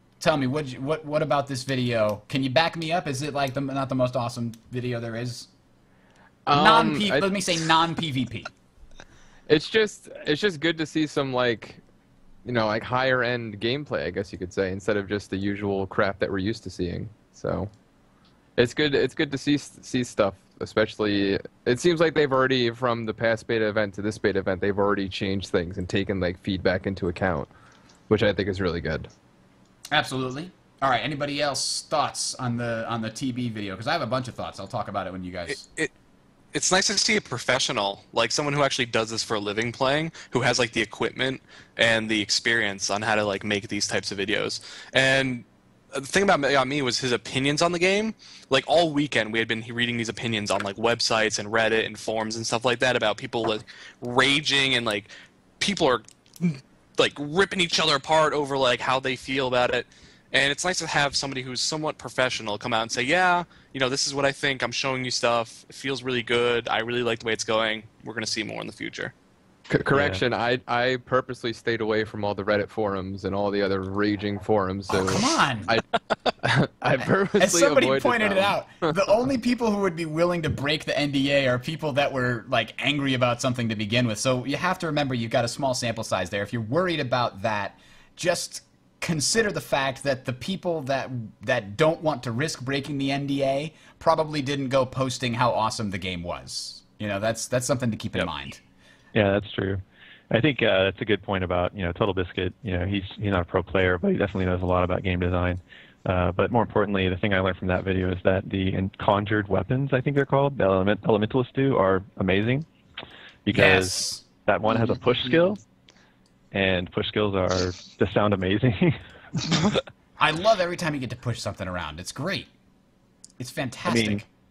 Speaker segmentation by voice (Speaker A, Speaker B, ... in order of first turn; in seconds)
Speaker A: 0.2-5.5, 6.5-8.5, 29.9-35.6, 74.9-75.8, 77.4-98.6, 113.5-114.2, 120.2-122.5, 123.4-124.2
Speaker B: 6.5-7.3, 9.5-11.8, 12.4-17.7, 18.6-27.5, 28.1-29.1, 69.7-75.8, 76.4-79.0
Speaker C: 35.5-35.9, 36.5-69.1
Speaker D: 69.9-70.2, 99.1-112.7, 113.5-115.6, 116.5-119.0, 123.9-124.2